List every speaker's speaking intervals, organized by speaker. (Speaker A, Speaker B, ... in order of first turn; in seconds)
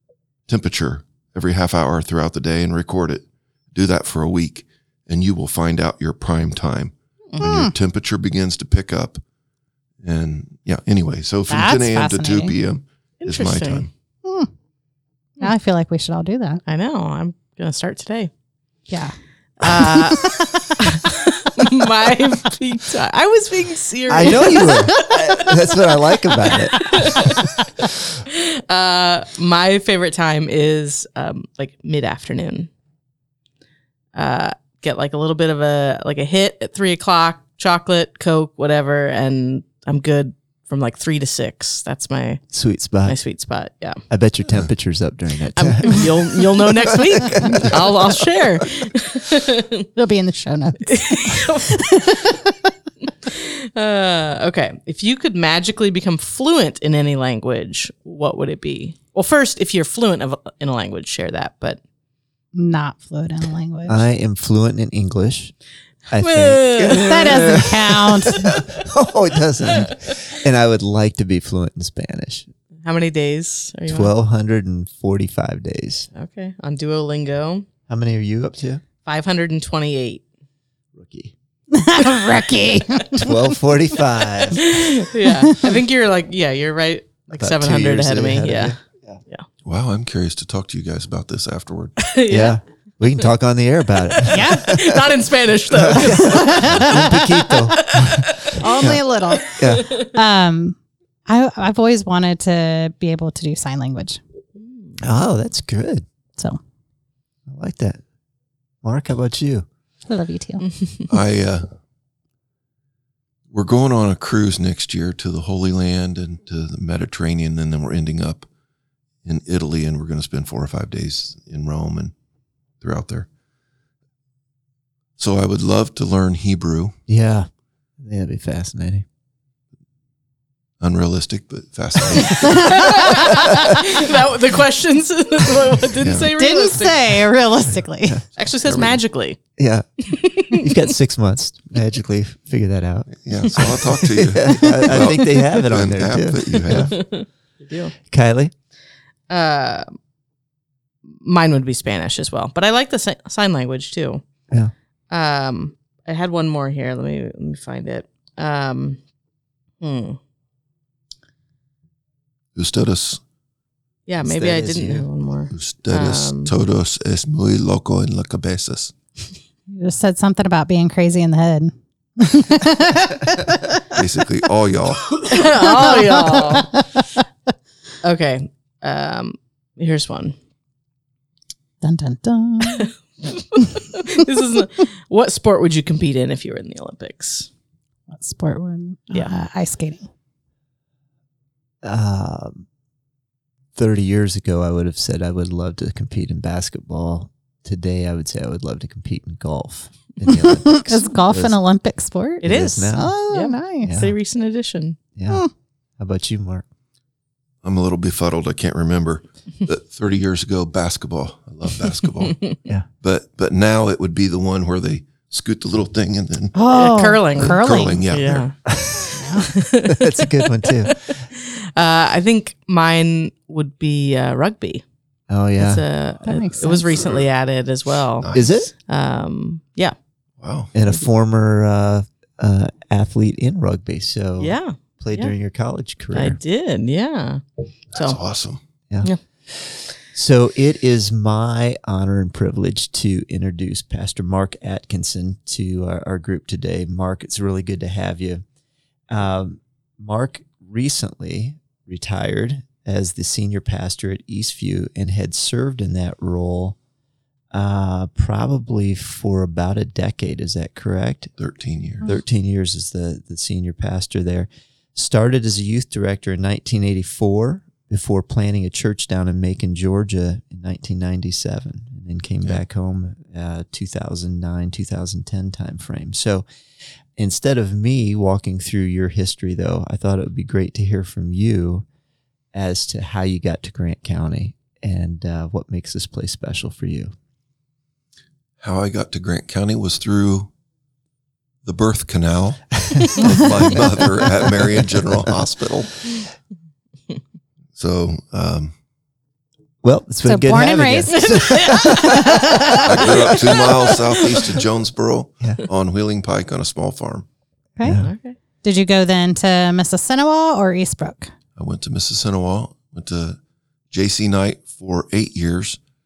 Speaker A: 0.5-9.2, 10.0-13.9, 89.6-92.0, 111.1-111.7, 113.5-118.5, 119.2-122.1, 122.8-123.3, 125.2-127.0, 130.8-133.5, 136.0-136.3, 138.4-139.0, 143.2-147.0, 162.6-163.2, 165.5-168.9, 173.9-175.2, 207.6-216.6, 217.4-218.6, 226.9-227.2, 228.2-228.5, 230.4-230.7, 237.9-238.6, 261.4-262.0, 288.6-290.5, 291.6-296.0, 297.8-298.7, 302.8-307.3, 311.6-313.4, 313.9-315.8
Speaker B: 7.4-7.7, 11.5-12.5, 14.2-14.5, 15.4-16.6, 18.9-20.7, 50.0-52.7, 62.5-64.1, 67.0-68.5, 81.7-83.4, 85.2-85.7, 94.3-94.7, 96.0-97.5, 98.6-104.2, 110.1-110.6, 136.4-138.2, 169.7-173.8, 175.4-177.2, 181.8-182.9, 188.1-190.1, 200.3-203.9, 216.5-218.0, 219.1-219.5, 226.2-226.9, 300.2-302.8, 308.6-311.3
Speaker C: 13.2-13.9, 16.7-18.3, 19.6-25.2, 26.5-27.4, 28.2-32.7, 34.1-42.4, 43.0-44.0, 45.5-49.8, 50.9-52.0, 53.2-61.8, 66.2-67.7, 69.7-70.1, 72.8-74.1, 76.1-77.7, 79.0-80.2, 84.6-88.8, 92.0-92.6, 94.2-97.2, 98.0-98.6, 104.6-104.9, 132.4-137.2, 138.4-139.4, 140.1-140.8, 144.6-145.2, 146.6-147.9, 149.3-149.9, 151.1-154.2, 155.1-159.0, 159.8-160.2, 164.1-166.5, 175.2-176.7, 178.0-180.3, 182.6-187.5, 202.4-205.0, 216.7-218.6, 219.6-220.1, 220.6-221.2, 221.8-224.8, 225.6-229.9, 234.4-235.3, 236.1-237.4, 301.2-304.6, 308.0-308.4
Speaker D: 24.1-27.4, 42.5-43.2, 44.1-48.6, 63.9-65.5, 66.1-72.5, 73.9-76.1, 77.9-78.8, 80.9-81.3, 83.2-84.8, 87.4-89.2, 92.3-95.2, 95.7-99.9, 105.0-106.0, 107.5-108.0, 108.8-109.7, 127.1-127.5, 128.0-129.1, 139.6-139.9, 140.5-146.9, 148.1-148.5, 164.2-165.1, 191.8-192.7, 193.8-201.6, 202.4-203.2, 203.8-204.1, 205.1-205.4, 206.0-206.6, 218.7-219.2, 219.9-221.2, 225.3-225.8, 228.3-228.7, 230.7-236.4, 238.9-248.4, 249.1-256.8, 257.5-261.3, 262.0-276.4, 277.1-281.9, 282.5-287.1, 292.9-295.4, 299.8-303.2, 307.8-308.1